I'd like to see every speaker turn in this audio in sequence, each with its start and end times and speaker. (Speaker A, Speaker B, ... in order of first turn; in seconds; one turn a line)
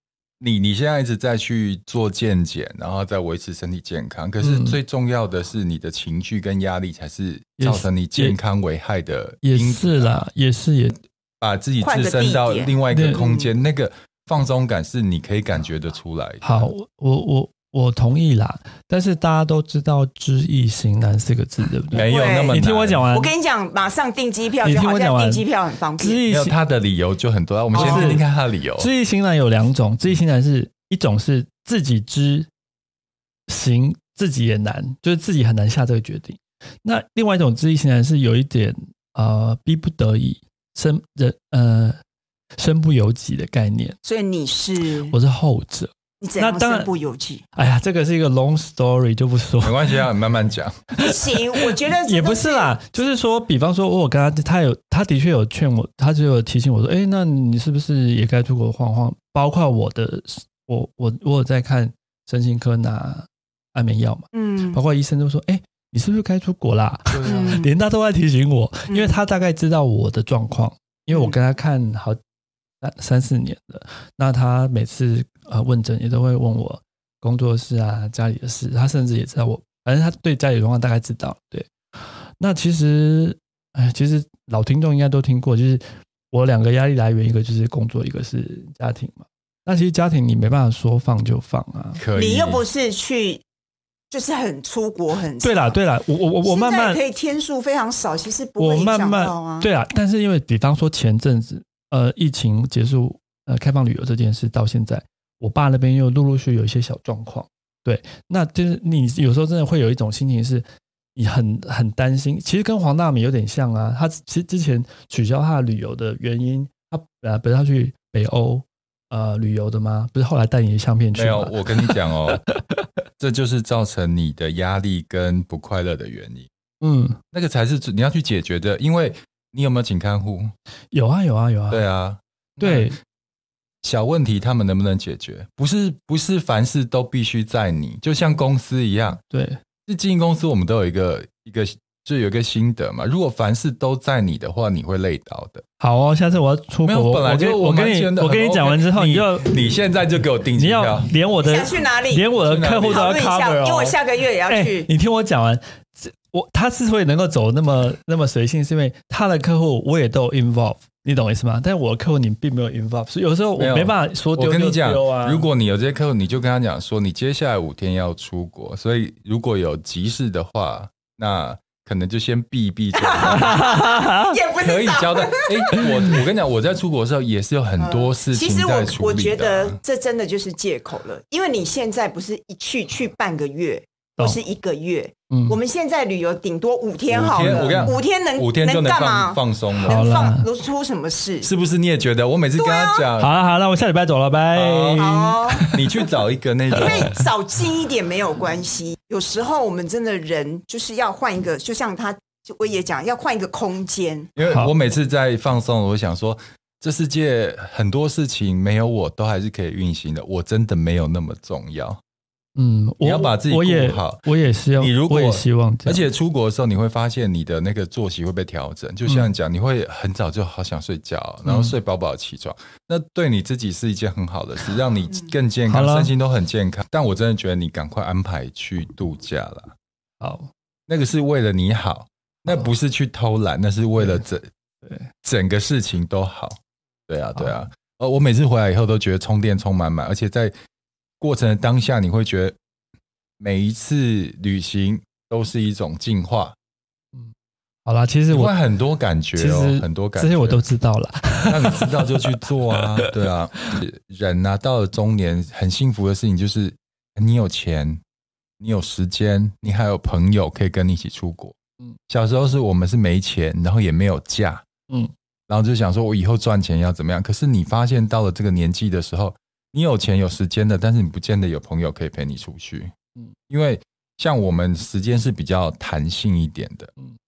Speaker A: 0.4-10.2
Speaker B: 4.4-4.8
Speaker B: 7.6-8.4
Speaker B: 9.4-10.9
Speaker A: 11.4-16.7
Speaker C: 11.8-13.5
Speaker B: 12.9-13.3
Speaker B: 16.4-23.3
Speaker A: 21.9-23.1
Speaker C: 21.9-26.2
Speaker B: 24.6-25.4
Speaker B: 26.0-26.6
Speaker A: 26.3-28.9
Speaker B: 27.7-28.2
Speaker C: 27.7-28.2
Speaker B: 28.8-32.5
Speaker B: 33.5-42.0
Speaker B: 42.5-44.0
Speaker C: 44.0-45.1
Speaker B: 45.1-46.9
Speaker C: 46.2-47.4
Speaker B: 47.5-50.0
Speaker A: 49.6-50.9
Speaker B: 51.0-72.2
Speaker C: 51.0-52.8
Speaker C: 64.3-64.8
Speaker A: 67.1-67.6
Speaker C: 67.2-67.7
Speaker C: 68.9-69.2
Speaker B: 72.8-92.0
Speaker A: 92.0-92.6
Speaker C: 92.2-93.4
Speaker C: 94.1-95.7
Speaker B: 95.4-97.0
Speaker C: 96.4-99.7
Speaker B: 98.6-122.9
Speaker A: 121.1-122.4
Speaker A: 123.2-126.5
Speaker B: 126.8-127.2
Speaker A: 127.3-130.5
Speaker B: 130.9-131.8
Speaker A: 131.7-132.9
Speaker B: 132.6-133.0
Speaker A: 133.8-139.2
Speaker B: 139.3-139.6
Speaker A: 139.9-145.6
Speaker B: 145.8-149.6
Speaker A: 146.8-151.1
Speaker B: 150.6-165.4
Speaker C: 151.4-152.3
Speaker A: 152.4-153.1
Speaker C: 152.9-154.9
Speaker A: 163.6-173.6
Speaker C: 173.0-175.9
Speaker B: 173.3-174.4
Speaker A: 174.6-179.8
Speaker C: 177.8-191.5
Speaker B: 185.3-185.6
Speaker A: 187.1-190.1
Speaker B: 187.4-187.9
Speaker B: 189.8-190.5
Speaker A: 191.4-193.3
Speaker C: 192.6-193.1
Speaker B: 193.2-195.8
Speaker A: 194.5-197.2
Speaker C: 195.0-195.7
Speaker C: 196.7-204.3
Speaker B: 196.8-197.1
Speaker A: 204.3-212.0
Speaker B: 204.4-204.7
Speaker B: 212.5-216.0
Speaker A: 213.0-214.2
Speaker A: 214.8-229.7
Speaker B: 221.4-221.7
Speaker B: 225.7-226.1
Speaker B: 230.2-230.5
Speaker A: 230.9-234.5
Speaker A: 235.2-240.5
Speaker A: 241.2-242.6
Speaker A: 243.4-246.5
Speaker B: 247.8-248.6
Speaker A: 248.3-250.6
Speaker B: 249.3-253.1
Speaker A: 251.4-258.0
Speaker A: 258.6-261.6
Speaker A: 262.1-264.6
Speaker A: 265.5-272.9
Speaker A: 273.5-276.9